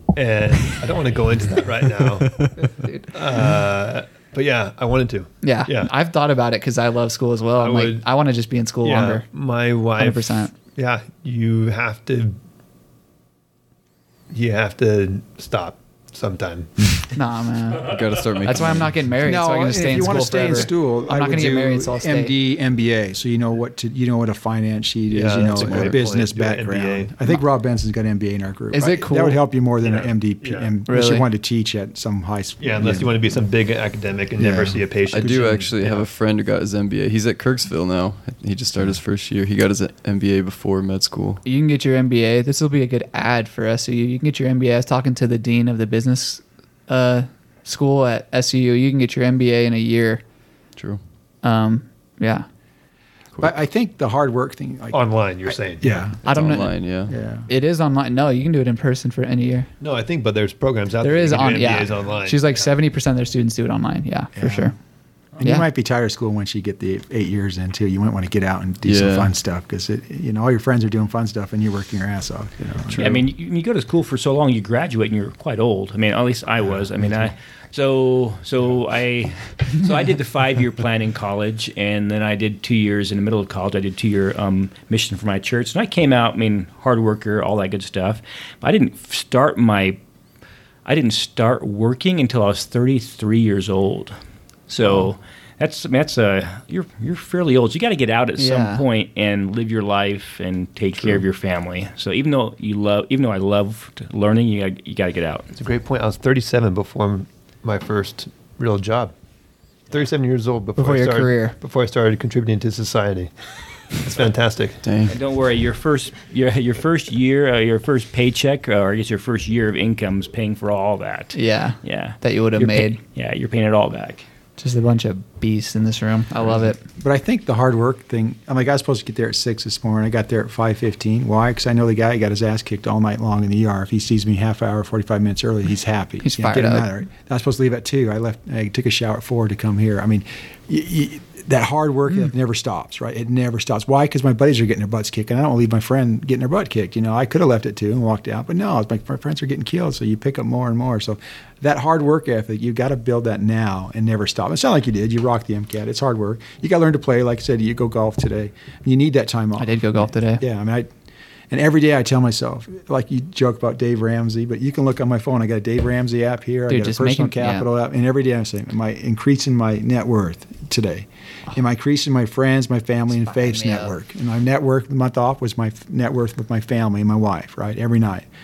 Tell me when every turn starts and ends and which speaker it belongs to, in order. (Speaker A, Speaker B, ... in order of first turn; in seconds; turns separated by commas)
Speaker A: 0.1-5.9, Speaker B: 5.4-9.2, Speaker A: 7.6-8.1, Speaker A: 8.8-12.4, Speaker B: 10.0-10.5, Speaker A: 14.3-16.7, Speaker B: 17.1-22.3, Speaker C: 17.8-19.0, Speaker D: 19.2-33.3, Speaker A: 25.1-27.1, Speaker C: 25.6-26.0, Speaker B: 28.7-29.4, Speaker A: 29.8-30.7, Speaker B: 30.9-31.3, Speaker A: 32.6-36.0, Speaker D: 34.4-35.5, Speaker C: 35.1-41.4, Speaker B: 41.5-50.2, Speaker C: 50.8-51.0, Speaker B: 51.4-52.5, Speaker D: 53.4-56.4, Speaker A: 54.9-55.9, Speaker B: 56.3-56.8, Speaker C: 56.3-57.1, Speaker D: 57.1-57.5, Speaker B: 57.5-59.7, Speaker A: 59.8-62.6, Speaker B: 61.0-64.7, Speaker D: 64.4-64.8, Speaker D: 65.4-73.2, Speaker C: 68.8-69.3, Speaker E: 73.0-90.0, Speaker E: 90.9-94.2, Speaker E: 94.7-105.5, Speaker B: 98.4-98.8, Speaker A: 105.5-109.1, Speaker A: 109.9-113.3, Speaker B: 110.8-111.5, Speaker A: 113.9-114.8, Speaker C: 114.8-115.2, Speaker E: 115.1-124.2, Speaker B: 121.3-123.0, Speaker B: 124.6-126.8, Speaker D: 127.0-160.9, Speaker B: 136.2-136.9, Speaker B: 159.6-160.4, Speaker D: 161.5-178.3, Speaker B: 166.7-167.7, Speaker B: 173.1-174.0